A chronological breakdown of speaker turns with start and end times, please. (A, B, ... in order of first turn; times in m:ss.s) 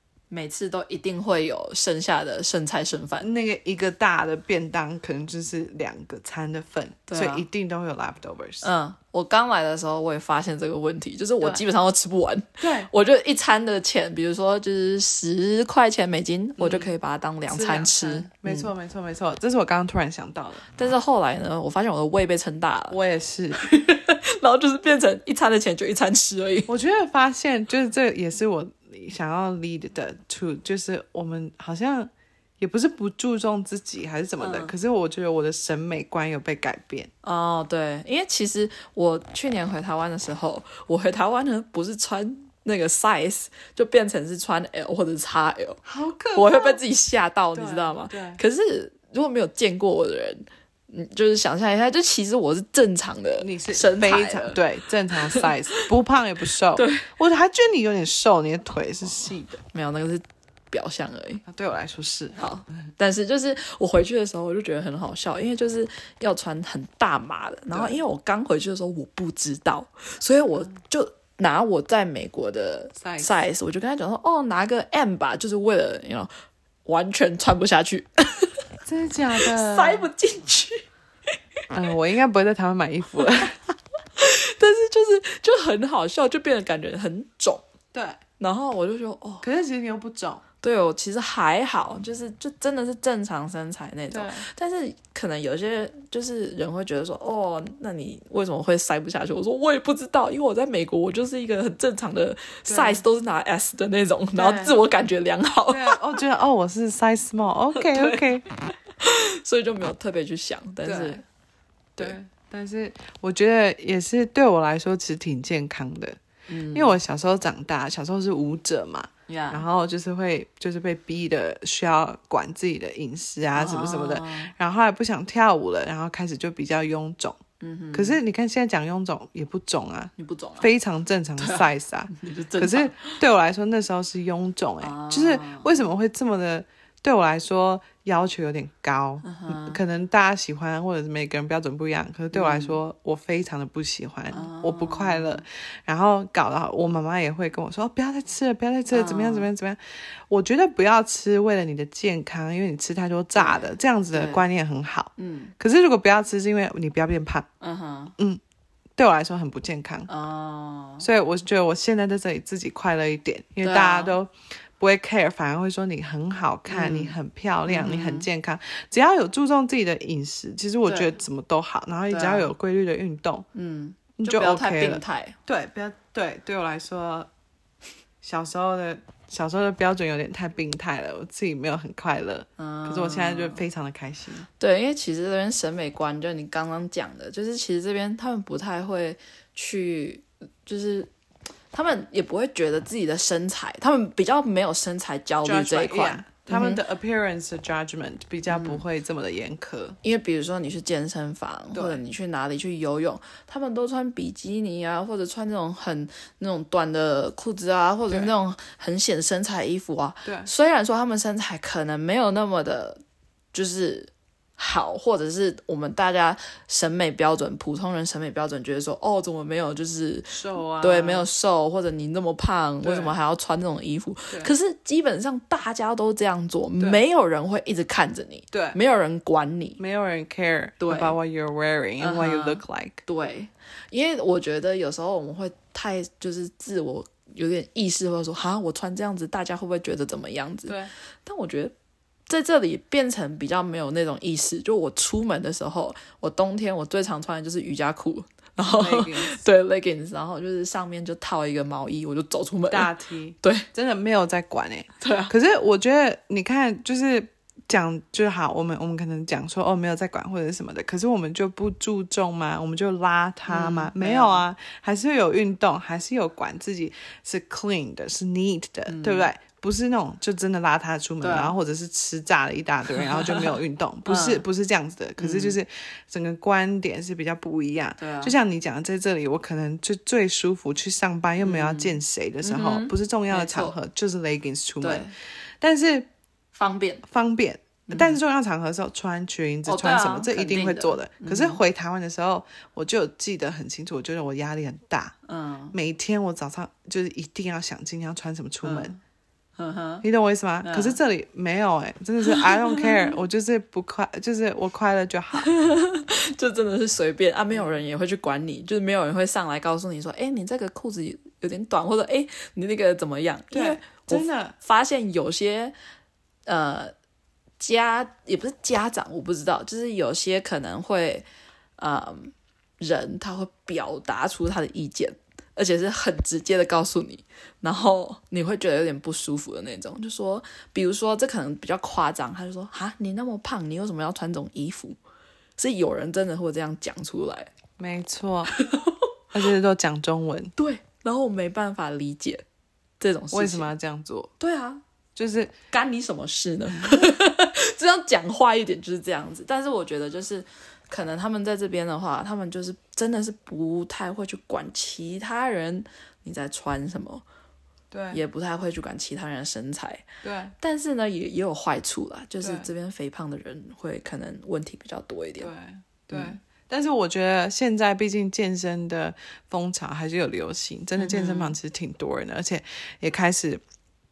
0:00.3-0:03.3 A
0:03.2-0:08.7 B
0:07.1-0:07.4 A
0:08.6-0:18.7 A
0:11.4-0:11.6 B
0:12.6-0:12.9 B
0:16.6-0:16.9 B
0:17.5-0:20.7 B
0:20.7-0:23.0 A
0:22.9-0:23.6 B
0:23.6-0:26.7 A
0:26.7-0:37.1 B
0:34.4-0:34.7 A
0:37.2-0:45.8 A
0:45.8-0:46.8 B
0:46.3-0:54.6 A
0:47.5-0:48.4 B
0:53.4-0:59.6 B
0:55.3-0:55.8 A
0:56.7-0:57.1 A
0:59.7-1:01.4 A
1:01.4-1:02.4 B
1:02.4-1:16.3 A
1:07.7-1:08.0 B
1:13.0-1:13.3 B
1:16.8-1:18.5 A
1:18.8-1:20.1 B
1:19.4-1:20.8 A
1:21.7-1:23.6 B
1:24.2-1:27.6 A
1:27.9-1:28.2 B
1:28.4-1:29.4 A
1:29.4-1:30.4 B
1:30.6-1:46.2 A
1:34.1-1:34.5 B
1:42.6-1:43.0 B
1:44.3-1:44.8 B
1:45.7-1:48.4 B
1:47.7-1:48.3 A
1:49.0-1:51.2 A
1:50.8-1:51.2 B
1:52.0-1:56.2 B
1:56.5-1:57.0 A
1:56.7-2:07.4 B
1:59.3-1:59.6 A
2:03.5-2:04.5 A
2:07.6-2:08.2 A
2:07.9-2:37.5 B
2:10.2-2:10.7 A
2:11.4-2:13.2 A
2:14.8-2:15.8 A
2:19.2-2:19.8 A
2:22.3-2:22.8 A
2:24.3-2:25.4 A
2:28.9-2:29.5 A
2:33.4-2:34.4 A
2:35.2-2:35.5 A
2:37.6-2:38.1 A
2:39.0-2:40.1 B
2:40.1-2:41.1 A
2:41.0-2:53.4 B
2:43.6-2:44.2 A
2:46.7-2:47.2 A
2:47.7-2:48.3 A
2:50.9-2:51.2 A
2:52.1-2:52.5 A
2:53.5-2:55.4 A
2:54.2-2:57.3 B
2:58.2-3:04.5 B
3:02.6-3:03.6 A
3:04.6-3:11.1 A
3:11.7-3:16.8 A
3:15.4-3:20.0 B
3:18.5-3:18.8 A
3:20.0-3:33.0 A
3:21.7-3:22.0 B
3:30.2-3:30.5 B
3:33.5-3:49.8 A
3:40.3-3:41.3 B
3:42.8-3:43.2 B
3:48.5-3:48.8 B
3:49.8-3:53.0 B
3:50.8-3:51.2 A
3:52.0-4:01.7 A
4:00.6-4:00.9 B
4:02.3-4:13.7 A
4:08.6-4:09.4 B
4:12.7-4:46.1 B
4:15.0-4:15.3 A
4:23.5-4:24.4 A
4:28.9-4:29.3 A
4:31.2-4:31.5 A
4:33.0-4:34.4 A
4:35.2-4:35.6 A
4:38.0-4:38.3 A
4:41.4-4:43.8 A
4:44.8-4:45.1 A
4:46.5-4:47.0 A
4:47.1-4:55.1 B
4:47.9-4:48.2 A
4:49.6-4:51.6 A
4:55.2-4:55.8 A
4:55.7-4:58.9 B
4:58.6-4:59.0 A
4:59.6-5:00.0 A
5:00.0-5:05.5 B
5:00.6-5:01.0 A
5:02.2-5:03.1 A
5:05.4-5:15.7 A
5:13.5-5:14.5 B
5:16.4-5:16.9 A
5:17.6-5:21.2 A
5:21.8-5:35.0 A
5:35.6-5:37.5 A
5:37.8-5:38.5 B
5:38.5-5:39.0 A
5:39.3-5:40.5 B
5:40.6-5:42.4 A
5:43.0-5:43.7 A
5:43.3-5:44.3 B
5:44.4-5:44.8 A
5:45.2-5:45.5 B
5:45.7-5:57.2 A
5:57.9-5:58.2 B
5:58.1-6:00.0 A
6:00.2-6:00.5 B
6:00.6-6:05.5 A
6:02.4-6:02.7 B
6:05.4-6:13.6 B
6:11.0-6:11.6 A